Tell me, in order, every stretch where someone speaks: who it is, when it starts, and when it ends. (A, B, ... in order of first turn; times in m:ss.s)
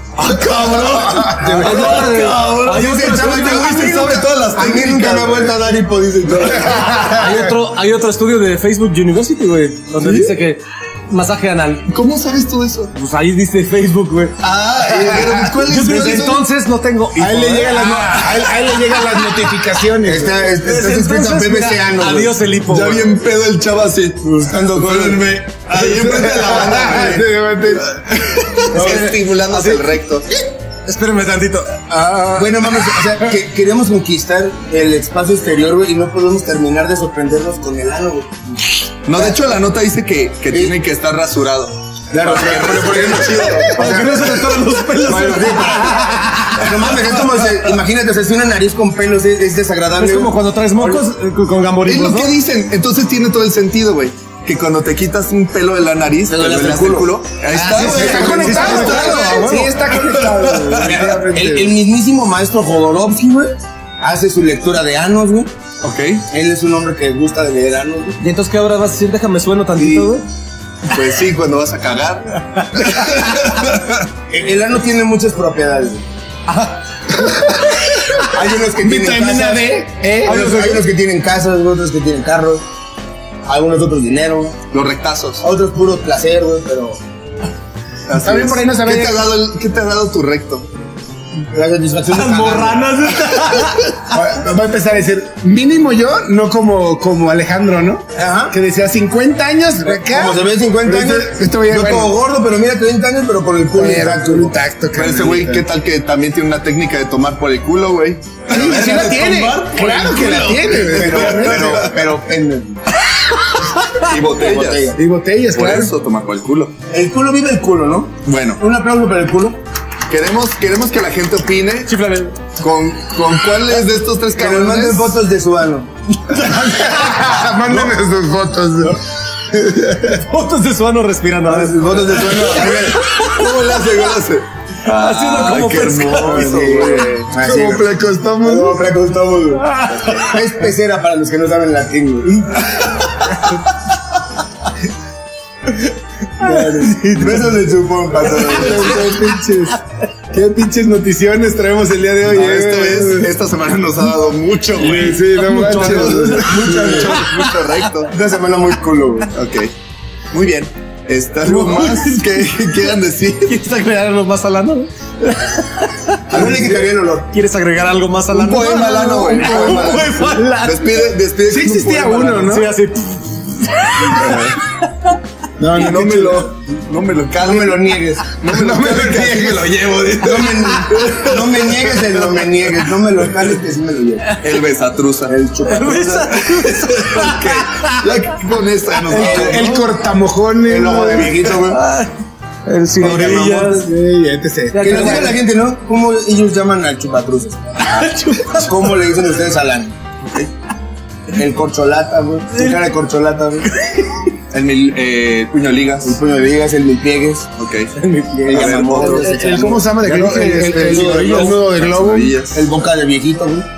0:00.2-0:05.6 A
0:01.4-0:04.2 B
0:01.4-0:02.1 C
0:01.7-0:02.1 D
0:02.8-0:07.2 C
0:06.2-0:07.1 A
0:07.0-0:11.9 B
0:07.1-0:07.4 D
0:10.0-0:10.3 A
0:11.9-0:12.9 A
0:12.9-0:14.4 B
0:14.4-0:16.5 A
0:14.8-0:15.6 D
0:15.7-0:18.9 B
0:17.2-0:20.4 D
0:20.0-0:22.4 C
0:20.6-0:23.1 B
0:22.6-0:27.3 A
0:24.2-0:25.4 C
0:25.8-0:28.6 D
0:26.5-0:27.1 C
0:28.1-0:30.3 A
0:28.7-0:29.1 C
0:28.8-0:29.8 B
0:30.8-0:33.1 B
0:32.3-0:39.4 C
0:39.1-0:44.7 A
0:40.5-0:40.8 C
0:42.1-0:44.2 C
0:43.7-0:47.5 B
0:45.0-0:51.0 C
0:50.0-0:52.4 B
0:51.8-1:00.9 A
0:56.3-0:59.4 C
0:57.8-0:59.8 B
0:58.1-1:01.8 D
1:00.8-1:05.5 C
1:05.8-1:06.3 A
1:06.3-1:08.2 C
1:08.2-1:10.3 B
1:10.9-1:14.1 A
1:14.3-1:16.0 C
1:16.5-1:17.3 B
1:17.3-1:18.2 D
1:18.2-1:19.7 C
1:18.7-1:20.4 D
1:20.2-1:20.9 B
1:20.2-1:22.6 C
1:23.4-1:24.6 C
1:24.7-1:25.4 A
1:25.4-1:27.0 C
1:28.1-1:30.7 A
1:28.2-1:29.3 D
1:31.5-1:33.0 C
1:32.1-1:34.2 B
1:34.1-1:42.1 D
1:38.2-1:38.6 C
1:39.8-1:44.6 C
1:43.8-1:45.7 D
1:44.9-1:48.8 A
1:48.5-1:51.7 D
1:48.6-1:52.8 C
1:51.1-1:52.0 A
1:54.0-1:54.9 A
1:54.3-1:55.0 C
1:54.9-1:55.9 D
1:55.5-1:56.7 A
1:56.9-1:59.6 C
1:58.2-1:58.6 A
2:00.1-2:01.9 A
2:01.8-2:02.4 B
2:02.6-2:05.2 A
2:04.4-2:05.9 C
2:06.4-2:10.1 D
2:06.4-2:07.0 B
2:10.1-2:13.5 B
2:11.4-2:13.0 C
2:12.7-2:17.4 A
2:14.8-2:16.7 B
2:16.3-2:23.0 C
2:17.4-2:18.8 D
2:19.6-2:20.4 B
2:22.8-2:23.3 A
2:26.4-2:29.1 C
2:26.4-2:27.4 B
2:28.5-2:33.3 D
2:32.2-2:38.1 A
2:34.8-2:37.6 B
2:34.8-2:37.1 D
2:36.4-2:37.4 C
2:38.1-2:39.3 C
2:39.3-2:39.7 A
2:40.3-2:43.6 A
2:41.4-2:42.2 B
2:43.5-2:46.8 B
2:46.3-2:47.3 C
2:47.3-2:51.0 B
2:48.3-2:52.6 A
2:49.5-2:50.0 C
2:51.5-2:52.7 D
2:52.4-2:54.5 B
2:54.0-2:54.6 A
2:55.6-2:56.5 D
2:55.8-3:03.0 A
2:57.4-3:04.3 C
2:58.3-3:00.1 D
3:04.4-3:05.4 A
3:05.3-3:06.4 C
3:05.6-3:08.1 B
3:06.4-3:09.7 A
3:09.1-3:09.9 B
3:09.1-3:09.7 C
3:09.5-3:11.4 D
3:10.7-3:11.8 C
3:11.0-3:12.1 B
3:12.7-3:13.9 B
3:13.0-3:13.9 C
3:13.8-3:15.4 D
3:14.7-3:15.4 B
3:14.8-3:17.6 C
3:17.8-3:18.9 B
3:18.5-3:20.0 C
3:20.2-3:20.5 A
3:21.3-3:23.7 C
3:23.8-3:24.2 B
3:24.5-3:26.2 A
3:26.0-3:27.5 C
3:27.6-3:27.9 A
3:28.0-3:29.3 B
3:28.5-3:31.7 C
3:28.5-3:29.0 A
3:29.0-3:32.4 D
3:30.0-3:31.6 B
3:31.6-3:32.6 A
3:32.4-3:33.7 C